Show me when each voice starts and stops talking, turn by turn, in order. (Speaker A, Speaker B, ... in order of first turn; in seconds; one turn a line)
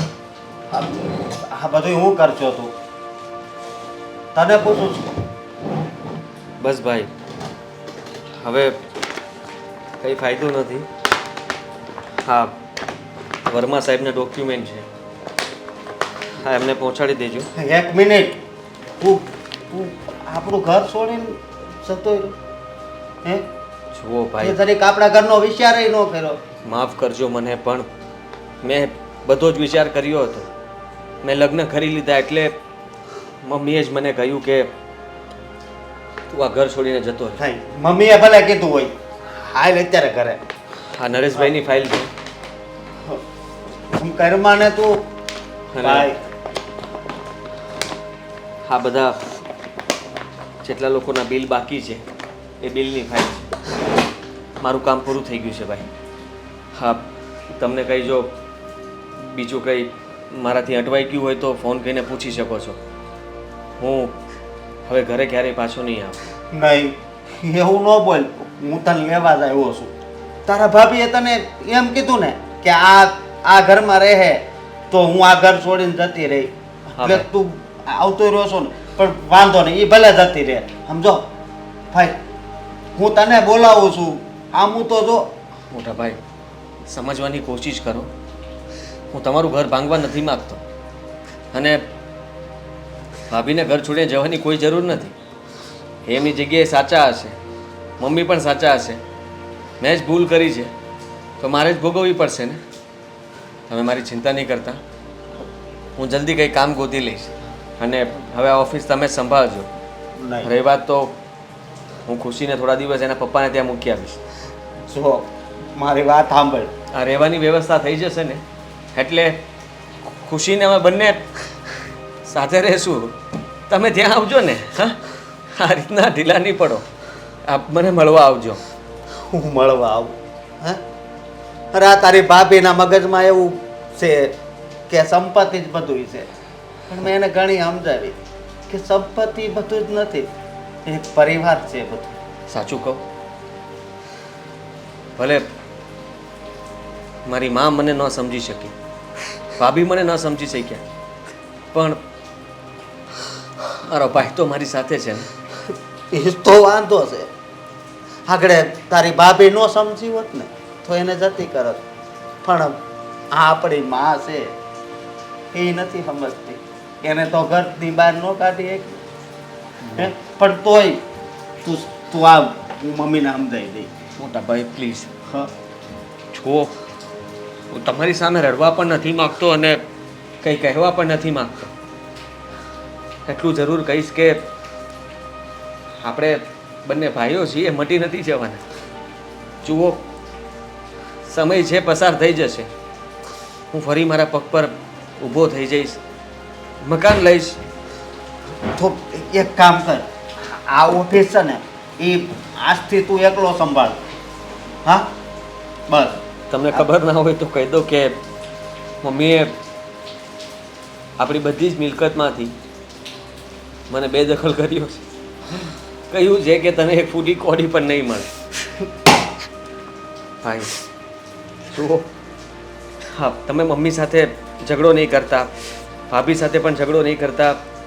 Speaker A: 0.7-2.7
Speaker A: 4.3-5.1
Speaker B: 6.6-7.1
Speaker B: 8.4-8.8
Speaker B: 10.0-10.9
Speaker B: 12.2-12.6
Speaker B: 13.5-14.8
Speaker B: 16.4-17.5
Speaker A: 17.6-18.4
Speaker A: 19.0-22.4
Speaker B: 23.9-24.6
Speaker A: 24.4-26.4
Speaker B: 26.6-27.9
Speaker B: 28.6-30.5
Speaker B: 31.2-32.5
Speaker B: 33.4-34.7
Speaker B: 36.3-37.4
Speaker A: 37.4-40.4
Speaker B: 40.9-42.1
Speaker A: 43.9-45.1
Speaker B: 45.7-46.1
Speaker A: 45.8-46.2
Speaker B: 48.7-49.2
Speaker B: 50.6-52.0
Speaker B: 52.6-53.5
Speaker B: 54.6-55.9
Speaker B: 56.7-57.0
Speaker B: 57.5-58.3
Speaker B: 59.3-62.8
Speaker B: 63.8-64.1
Speaker B: 64.9-66.2
Speaker A: 66.5-69.9
Speaker A: 70.5-81.3
Speaker B: 77.0-77.2
Speaker A: 81.9-82.2
Speaker A: 83.0-85.3
Speaker B: 85.7-86.2
Speaker B: 86.9-88.1
Speaker B: 89.1-90.6
Speaker B: 91.5-91.8
Speaker B: 93.3-95.1
Speaker B: 96.0-97.3
Speaker B: 98.0-99.0
Speaker B: 99.8-100.7
Speaker B: 101.4-102.6
Speaker B: 103.7-104.8
Speaker B: 106.0-109.7
Speaker A: 110.2-110.5
Speaker B: 110.4-111.1
Speaker B: 112.1-114.2
Speaker A: 114.9-116.7
Speaker B: 116.9-118.4
Speaker B: 118.9-119.4
Speaker B: 120.2-121.2
Speaker B: 122.2-123.2
Speaker B: 123.7-125.0
Speaker B: 125.5-126.8
Speaker B: 127.5-128.6
Speaker A: 129.1-130.8
Speaker A: 131.7-134.4
Speaker A: 134.9-136.3
Speaker A: 136.9-138.2
Speaker A: 138.7-140.3
Speaker A: 140.8-142.2
Speaker B: 142.5-143.0
Speaker B: 145.2-145.5
Speaker B: 147.2-148.7
Speaker B: 149.6-150.8
Speaker B: 151.7-152.0
Speaker B: 153.8-155.3
Speaker A: 156.1-157.3
Speaker A: 158.2-161.8
Speaker A: 162.4-164.5
Speaker A: 165.5-169.0
Speaker A: 170.0-171.0
Speaker A: 171.6-173.9
Speaker B: 174.2-175.1
Speaker B: 176.3-176.7
Speaker B: 177.7-179.8
Speaker B: 180.4-181.7
Speaker B: 183.3-184.4
Speaker B: 186.0-188.6
Speaker B: 189.6-190.0
Speaker B: 191.3-192.7
Speaker B: 193.7-196.0
Speaker B: 196.8-197.6
Speaker A: 198.7-204.0
Speaker A: 204.8-205.1
Speaker A: 205.9-206.2
Speaker B: 206.5-208.2
Speaker B: 209.0-209.5
Speaker B: 211.2-212.5
Speaker B: 213.9-215.0
Speaker B: 216.1-218.3
Speaker B: 220.4-220.8
Speaker B: 221.7-222.1
Speaker B: 223.1-225.5
Speaker B: 226.1-227.6